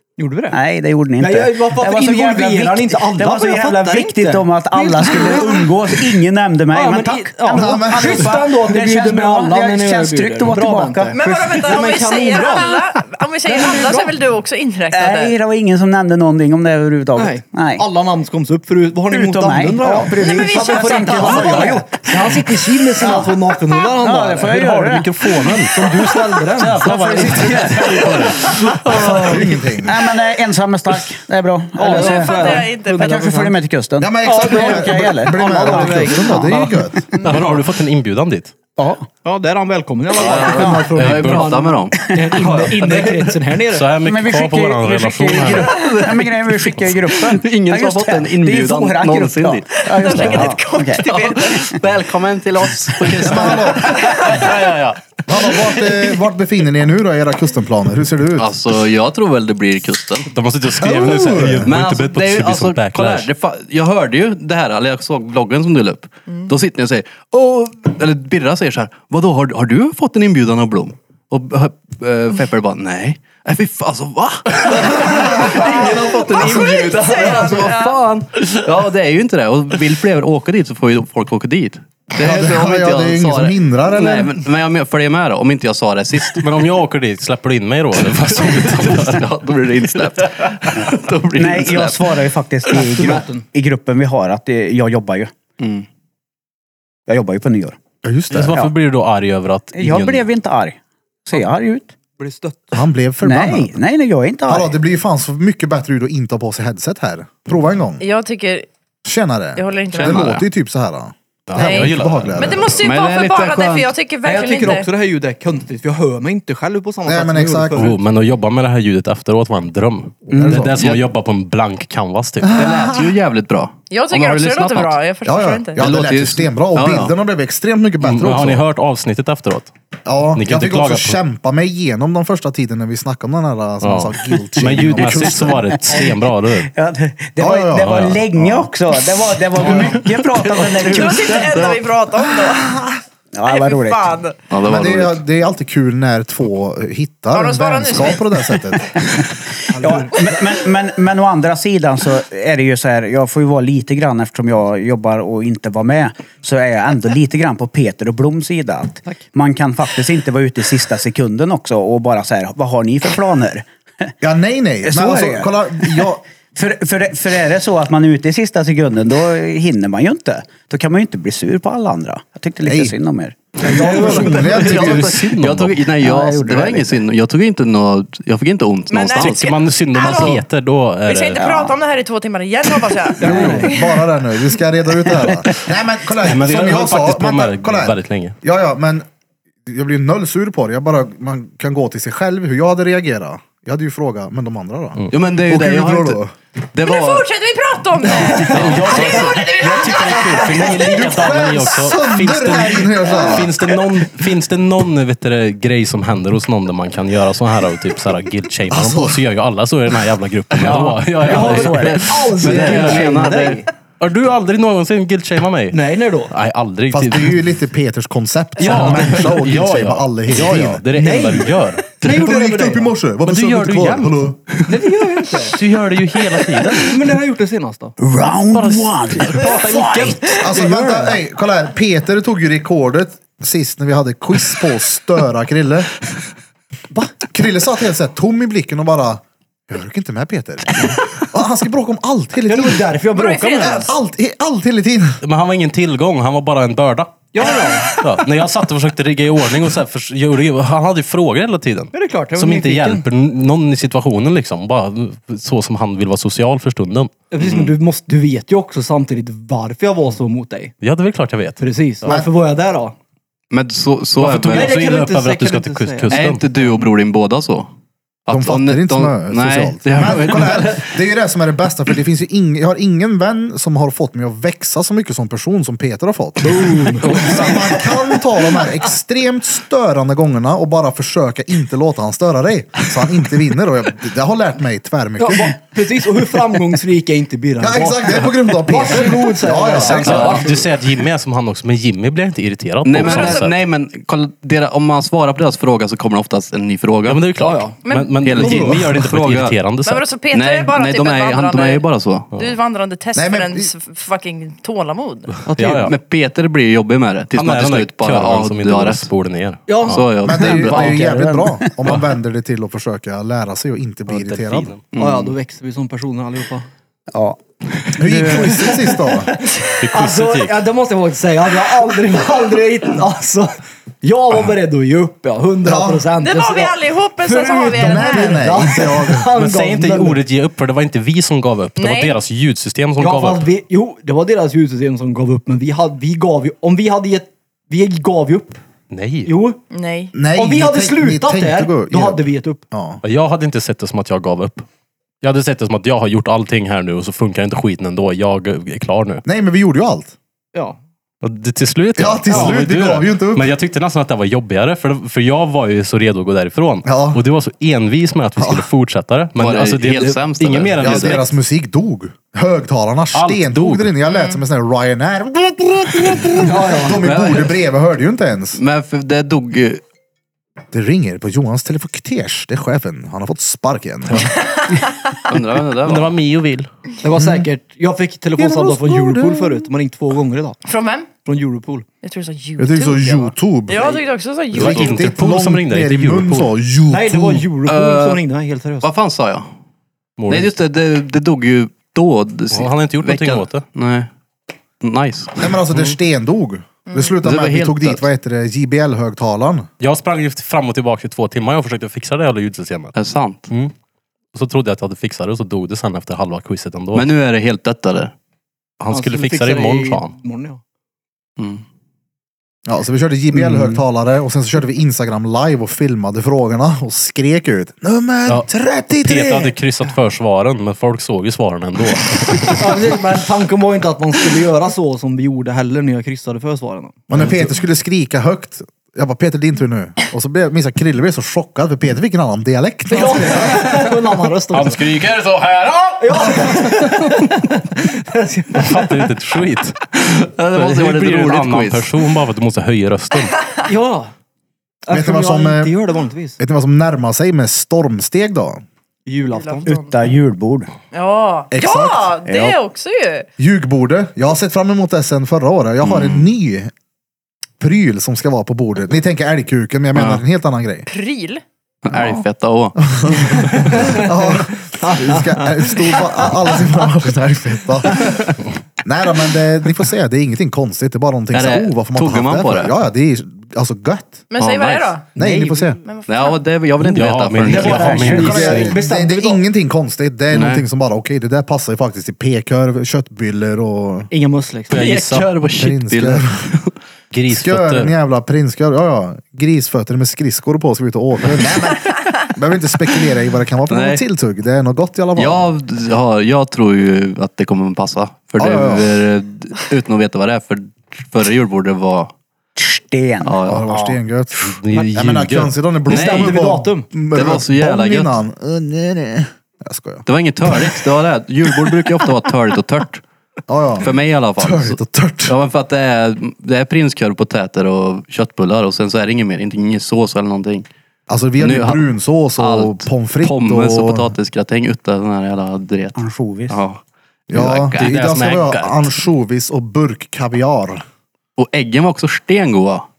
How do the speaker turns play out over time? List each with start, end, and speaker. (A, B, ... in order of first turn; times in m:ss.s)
0:00.2-0:00.6 A
0:00.5-0:11.1 B
0:01.2-0:06.0 A
0:06.7-0:12.8 A
0:07.5-0:08.4 C
0:11.1-0:15.4 D
0:13.5-0:14.1 A
0:14.9-0:17.8 B
0:17.2-0:27.9 A
0:19.1-0:22.4 B
0:20.2-0:21.8 D
0:23.0-0:25.3 B
0:24.7-0:29.2 E
0:26.6-0:36.6 B
0:28.6-0:29.4 A
0:29.1-0:30.0 C
0:31.8-0:33.6 A
0:31.8-0:33.1 D
0:34.0-0:37.1 C
0:34.2-0:36.9 A
0:37.1-0:37.6 D
0:37.2-0:38.5 E
0:38.8-0:39.1 B
0:39.2-0:43.9 A
0:40.2-0:42.0 F
0:40.2-0:40.9 B
0:40.6-0:41.7 E
0:41.9-0:43.0 B
0:42.6-0:43.2 E
0:43.7-0:45.9 E
0:44.0-0:51.8 B
0:45.7-0:50.5 F
0:49.8-0:51.6 D
0:51.0-0:54.2 F
0:53.1-0:53.4 B
0:53.2-0:54.1 C
0:54.0-0:54.5 D
0:54.1-0:55.8 E
0:55.3-0:58.6 C
0:58.4-1:00.3 F
1:00.3-1:03.3 E
1:00.8-1:01.7 C
1:01.6-1:26.8 F
1:15.4-1:18.0 D
1:22.2-1:24.3 C
1:26.2-1:29.3 E
1:28.0-1:32.2 F
1:29.8-1:30.9 E
1:31.4-1:35.3 B
1:32.7-1:33.4 A
1:35.6-1:35.8 F
1:37.1-1:37.8 B
1:38.0-1:38.7 C
1:38.3-1:40.2 E
1:39.7-1:41.9 B
1:42.2-1:42.8 A
1:42.7-1:43.8 C
1:43.2-1:44.7 B
1:44.5-1:48.0 C
1:48.0-1:48.7 D
1:49.0-1:52.8 C
1:49.6-1:50.4 D
1:49.9-1:50.4 F
1:51.5-1:52.6 E
1:51.6-1:54.9 D
1:52.8-1:53.9 F
1:54.2-1:58.0 A
1:57.0-1:57.9 C
1:57.8-2:02.7 E
2:00.3-2:00.7 B
2:00.4-2:00.8 C
2:00.8-2:01.0 F
2:02.4-2:03.1 C
2:02.6-2:05.0 F
2:03.9-2:05.9 D
2:05.2-2:08.6 C
2:05.8-2:07.1 F
2:08.0-2:09.7 E
2:10.0-2:15.6 C
2:10.4-2:11.2 E
2:13.8-2:16.7 E
2:14.6-2:21.7 B
2:17.4-2:18.7 C
2:17.8-2:18.2 E
2:19.7-2:21.8 F
2:20.9-2:22.9 D
2:23.3-2:24.2 B
2:23.4-2:24.4 D
2:24.5-2:25.2 F
2:24.6-2:28.8 C
2:27.3-2:28.4 D
2:29.0-2:44.1 B
2:29.7-2:30.2 A
2:44.2-2:46.2 C
2:44.8-2:54.4 B
2:52.6-2:53.0 C
2:53.6-2:54.8 A
2:53.6-2:55.2 C
2:54.2-2:55.8 E
2:54.5-2:59.5 F
2:55.9-2:57.0 B
2:58.9-3:00.5 D
2:59.1-3:01.5 E
3:00.0-3:00.3 F
3:01.0-3:04.0 D
3:01.4-3:01.7 B
3:03.2-3:09.0 C
3:03.2-3:03.7 A
3:03.3-3:03.6 B
3:05.1-3:05.5 B
3:06.2-3:08.3 E
3:09.7-3:16.3 C
3:15.1-3:17.3 F
3:16.8-3:21.3 D
3:18.0-3:19.5 F
3:18.3-3:33.3 E
3:20.7-3:23.5 C
3:28.7-3:29.2 C
3:30.6-3:32.1 B
3:31.2-3:33.6 A
3:32.4-3:33.6 F
3:34.0-3:37.4 E
3:35.7-3:36.3 A
3:36.9-3:40.8 C
3:38.6-3:42.0 E
3:40.9-3:42.9 A
3:42.0-3:44.4 C
3:43.2-3:44.2 E
3:44.6-3:45.6 A
3:45.4-3:46.9 E
3:46.5-3:46.9 B
3:46.7-3:47.9 A
3:48.0-3:50.2 B
3:48.5-3:50.2 E
3:49.4-3:51.2 A
3:50.2-3:55.9 C
3:57.3-4:02.9 C
4:02.4-4:03.9 A
4:03.1-4:04.0 D
4:03.6-4:05.2 C
4:05.2-4:07.3 E
4:07.3-4:07.9 A
4:07.9-4:17.1 E
4:11.9-4:13.0 A
4:17.3-4:20.7 A
4:17.4-4:17.7 F
4:20.8-4:21.6 E
4:21.6-4:22.9 A
4:23.5-4:24.7 F
4:24.2-4:26.4 E
4:24.3-4:26.3 A
4:26.1-4:27.7 F
4:28.3-4:30.9 F
4:28.3-4:45.6 C
4:36.4-4:37.5 A
4:45.2-4:50.7 A
4:47.6-4:50.4 C
4:49.8-4:53.5 E
4:52.8-4:57.2 F
4:53.0-4:53.5 D
4:57.1-5:00.1 E
4:57.4-4:57.8 A
4:57.8-4:58.2 D
4:58.2-4:59.6 F
4:58.3-4:58.8 A
4:59.8-5:01.8 D
5:00.3-5:02.3 F
5:02.4-5:05.4 D
5:03.1-5:03.7 C
5:05.4-5:05.9 A
5:05.5-5:05.9 E
5:05.8-5:09.1 F
5:07.3-5:10.2 E
5:09.7-5:10.0 A
5:09.9-5:11.0 F
5:10.2-5:14.7 C
5:10.4-5:11.9 B
5:14.1-5:14.8 E
5:14.9-5:15.4 F
5:15.0-5:16.7 A
5:17.1-5:17.4 B
5:17.9-5:18.8 B
5:18.0-5:19.3 C
5:18.6-5:19.1 A
5:19.7-5:30.2 A
5:19.8-5:20.6 E
5:25.6-5:26.1 C
5:26.2-5:28.6 D
5:27.8-5:29.3 C
5:29.3-5:33.5 E
5:31.8-5:32.2 D
5:33.0-5:38.6 A
5:38.9-5:39.3 E
5:39.2-5:39.6 A
5:39.7-5:40.1 D
5:40.1-5:43.0 C
5:40.3-5:42.6 A
5:43.0-5:44.6 E
5:45.2-5:49.2 E
5:49.2-5:50.1 C
5:51.2-6:01.2 E
5:52.0-5:53.5 C
5:52.3-5:52.6 A
5:56.8-5:57.2 C
5:58.4-5:58.7 C
5:59.4-6:01.2 F
6:00.8-6:08.6 C
6:03.1-6:03.9 E
6:04.1-6:04.4 D
6:06.4-6:07.1 A
6:07.0-6:07.6 F
6:08.6-6:09.8 F
6:10.7-6:14.3 C
6:14.3-6:15.2 D
6:15.3-6:16.1 F
6:15.8-6:16.7 E
6:17.0-6:20.6 A
6:17.1-6:17.5 C
6:18.4-6:19.6 C
6:20.6-6:21.1 D
6:21.2-6:21.8 A
6:22.0-6:25.1 D
6:22.6-6:24.0 C
6:24.5-6:27.4 C
6:24.5-6:26.5 E
6:26.9-6:28.9 A
6:27.7-6:28.2 F
6:28.8-6:29.5 F
6:30.2-6:30.5 E
6:30.3-6:34.1 F
6:32.5-6:33.6 E
6:34.8-6:35.9 F
6:35.4-6:39.7 C
6:36.9-6:37.1 D
6:37.2-6:38.0 F
6:39.8-6:42.9 E
6:42.9-6:43.5 F
6:44.3-6:47.1 E
6:46.9-6:48.1 F
6:48.8-6:50.1 E
6:48.9-6:50.6 A
6:52.6-6:59.5 C
6:59.0-7:02.7 E
7:02.5-7:07.0 A
7:07.1-7:13.7 C
7:12.9-7:14.8 A
7:13.5-7:13.8 E
7:14.5-7:17.2 E
7:16.0-7:19.1 A
7:18.5-7:19.8 E
7:20.0-7:21.9 F
7:20.5-7:23.3 E
7:23.7-7:24.1 A
7:24.8-7:26.4 A
7:24.9-7:25.8 C
7:26.4-7:28.6 C
7:29.0-7:29.7 A
7:29.3-7:29.9 D
7:29.6-7:30.7 B
7:30.9-7:33.3 D
7:31.5-7:32.2 C
7:33.4-7:36.7 C
7:35.8-7:36.3 F
7:37.6-7:40.9 C
7:39.9-7:40.2 F
7:40.9-7:41.4 D
7:41.8-7:43.1 F
7:41.9-7:42.2 C
7:42.8-7:48.3 C
7:43.8-7:46.2 A
7:48.8-7:54.2 C
7:51.3-7:52.8 F
7:54.3-7:55.1 D
7:54.4-7:55.0 F
7:55.2-7:55.8 A
7:55.2-7:55.8 C
7:55.8-7:56.4 D
7:56.1-7:58.2 F
7:56.8-7:58.8 E
7:57.5-7:59.4 B
7:57.5-7:59.1 A
7:58.1-8:04.1 C
8:00.3-8:00.6 F
8:04.1-8:04.9 A
8:04.7-8:05.3 E
8:04.7-8:06.7 F
8:05.6-8:06.4 C
8:07.1-8:07.9 E
8:07.3-8:15.5 C
8:13.7-8:14.0 F
8:15.2-8:22.1 F
8:18.4-8:19.0 C
8:22.6-8:24.0 B
8:23.2-8:23.7 F
8:23.4-8:30.0 C
8:24.4-8:25.5 E
8:25.9-8:26.9 A
8:25.9-8:26.3 F
8:27.1-8:28.2 F
8:30.0-8:33.0 F
8:33.5-8:35.4 C
8:33.8-8:40.7 F
8:41.1-8:44.1 C
8:41.4-8:41.8 F
8:42.4-8:46.8 F
8:46.0-8:46.6 B
8:47.3-8:50.8 C
8:47.3-8:47.9 F
8:47.8-8:48.8 E
8:51.4-8:52.9 F